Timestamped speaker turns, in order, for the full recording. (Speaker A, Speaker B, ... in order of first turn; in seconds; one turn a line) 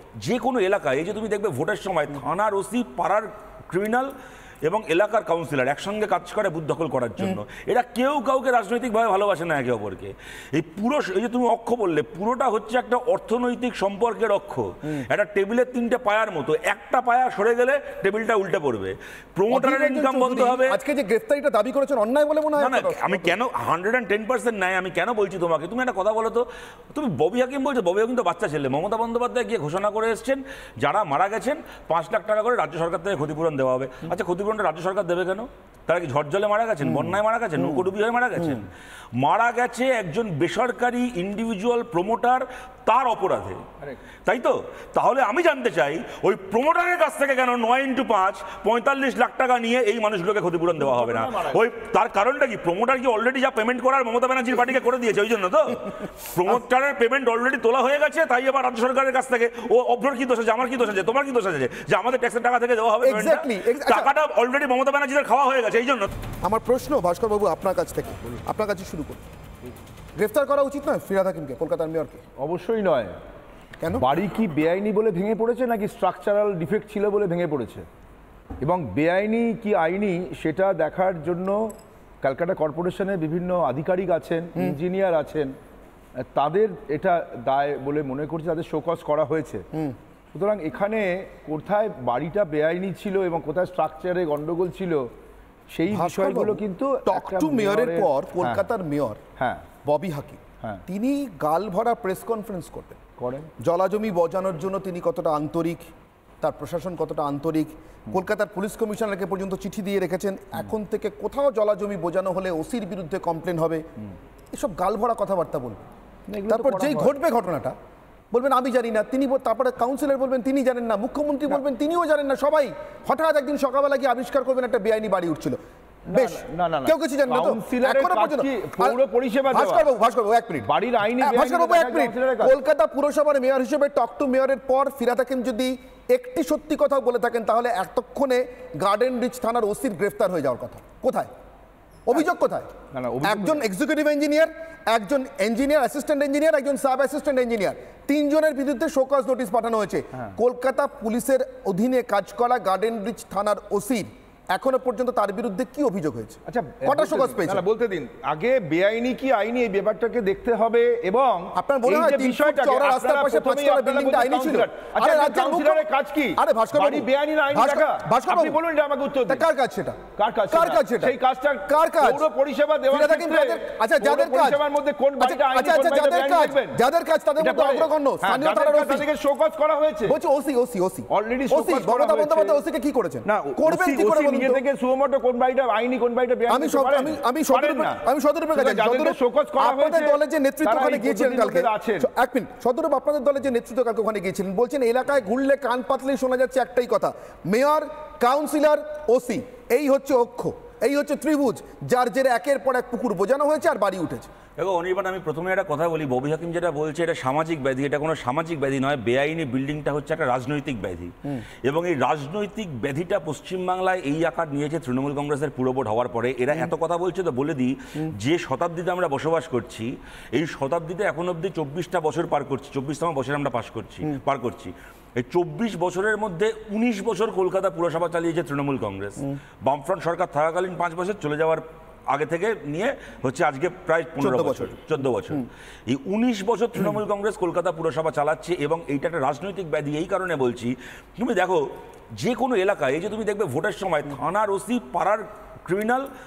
Speaker A: 0.2-4.1
Speaker A: 4.6-20.8
Speaker B: 19.5-23.4
Speaker A: 22.6-43.6
Speaker A: 44.2-66.1
Speaker C: 50.9-51.5
Speaker B: 63.0-64.1
Speaker B: 66.4-69.2
Speaker B: 70.2-72.2
Speaker C: 72.4-73.1
Speaker B: 73.8-74.1
Speaker C: 73.9-77.8
Speaker C: 78.6-85.5
Speaker C: 86.3-89.6
Speaker C: 90.3-95.1
Speaker C: 95.7-98.7
Speaker B: 95.9-99.2
Speaker C: 99.4-99.6
Speaker B: 99.8-103.0
Speaker C: 103.2-103.5
Speaker B: 103.6-105.9
Speaker B: 106.4-113.8
Speaker B: 114.5-115.8
Speaker C: 116.3-117.1
Speaker B: 116.5-117.7
Speaker B: 118.3-125.6
Speaker C: 126.1-129.9
Speaker B: 126.1-141.3
Speaker C: 130.6-132.5
Speaker B: 142.1-142.7
Speaker C: 142.9-143.6
Speaker B: 143.2-157.6
Speaker C: 156.4-169.4
Speaker B: 161.5-168.6
Speaker B: 169.3-171.1
Speaker C: 170.2-176.8
Speaker B: 171.7-172.2
Speaker B: 172.9-174.6
Speaker B: 175.2-179.1
Speaker C: 177.4-180.2
Speaker B: 180.1-184.6
Speaker C: 181.1-182.6
Speaker C: 183.2-188.0
Speaker B: 186.5-204.3
Speaker C: 188.5-192.1
Speaker A: 204.6-211.1
Speaker A: 211.7-241.6
Speaker B: 234.2-234.8
Speaker A: 242.2-246.1